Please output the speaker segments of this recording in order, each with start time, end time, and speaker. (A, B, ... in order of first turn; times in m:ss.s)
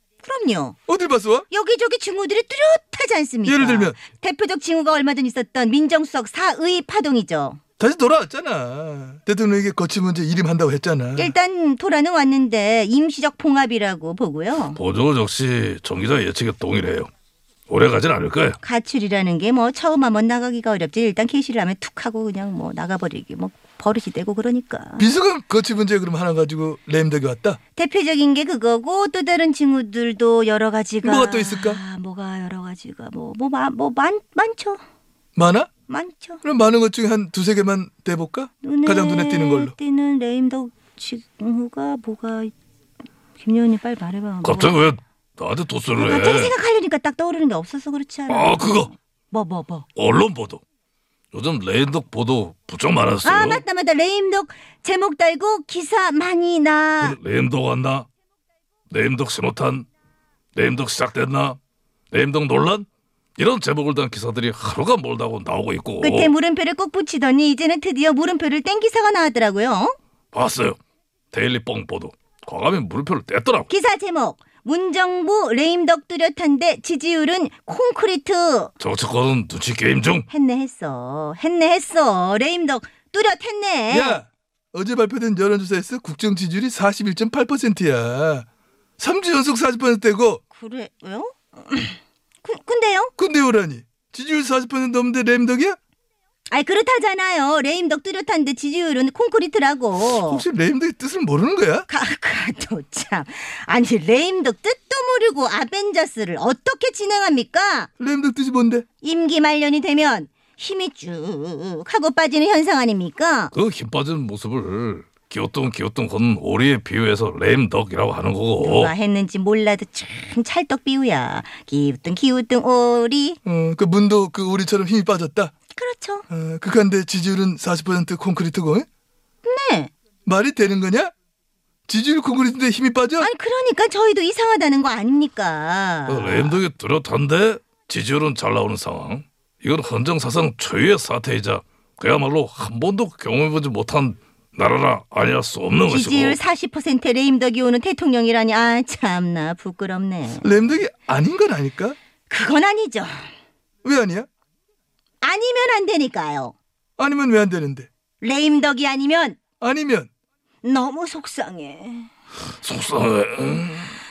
0:00.2-0:00.8 A
0:00.9-0:01.4 B
0:01.5-0:07.6 A
0:03.4-0:04.0 B
0:07.8-0:11.3 B
0:11.2-0:14.8 A
0:14.7-0:17.1 C
0:17.7-0:18.6 C
0:18.6-0:25.1 A
0:25.0-0:27.6 B
0:27.8-0:34.8 A
0:31.0-0:31.8 B
0:35.4-0:35.7 B
0:35.9-0:36.4 A
0:36.4-0:39.7 B
0:38.6-0:42.5 A
0:43.4-0:44.8 A
0:44.4-0:46.5 C
0:46.0-0:49.8 A
0:48.3-0:48.9 C
0:50.0-0:50.6 C
0:51.3-0:53.6 C
0:53.2-0:57.2 A
0:57.0-0:58.1 C
0:58.9-0:59.9 C
1:00.5-1:01.6 C
1:02.1-1:02.8 C
1:03.4-1:06.3 C
1:06.0-1:09.9 A
1:10.3-1:10.8 C
1:11.3-1:13.7 C
1:13.7-1:18.7 A
1:18.8-1:20.2 C
1:20.3-1:24.2 A
1:23.9-1:28.4 B
1:29.0-1:30.4 B
1:30.5-1:33.1 A
1:33.2-1:35.8 B
1:36.5-1:40.4 A
1:40.2-1:41.9 B
1:41.9-1:47.9 A
1:48.0-1:48.8 B
1:49.0-1:53.5 A
1:53.5-1:58.9 C
1:58.6-2:03.4 A
2:03.4-2:05.5 B
2:05.7-2:06.2 A
2:06.3-2:08.9 B
2:09.4-2:09.9 A
2:10.2-2:11.1 B
2:11.9-2:13.3 B
2:13.2-2:16.6 A
2:16.1-2:26.4 C
2:25.9-2:30.6 A
2:30.4-2:32.0 B
2:32.3-2:33.3 A
2:33.8-2:34.3 B
2:35.2-2:36.5 A
2:37.0-2:37.9 B
2:38.2-2:39.4 A
2:39.6-2:40.1 B
2:40.6-2:42.1 A
2:42.6-2:44.0 C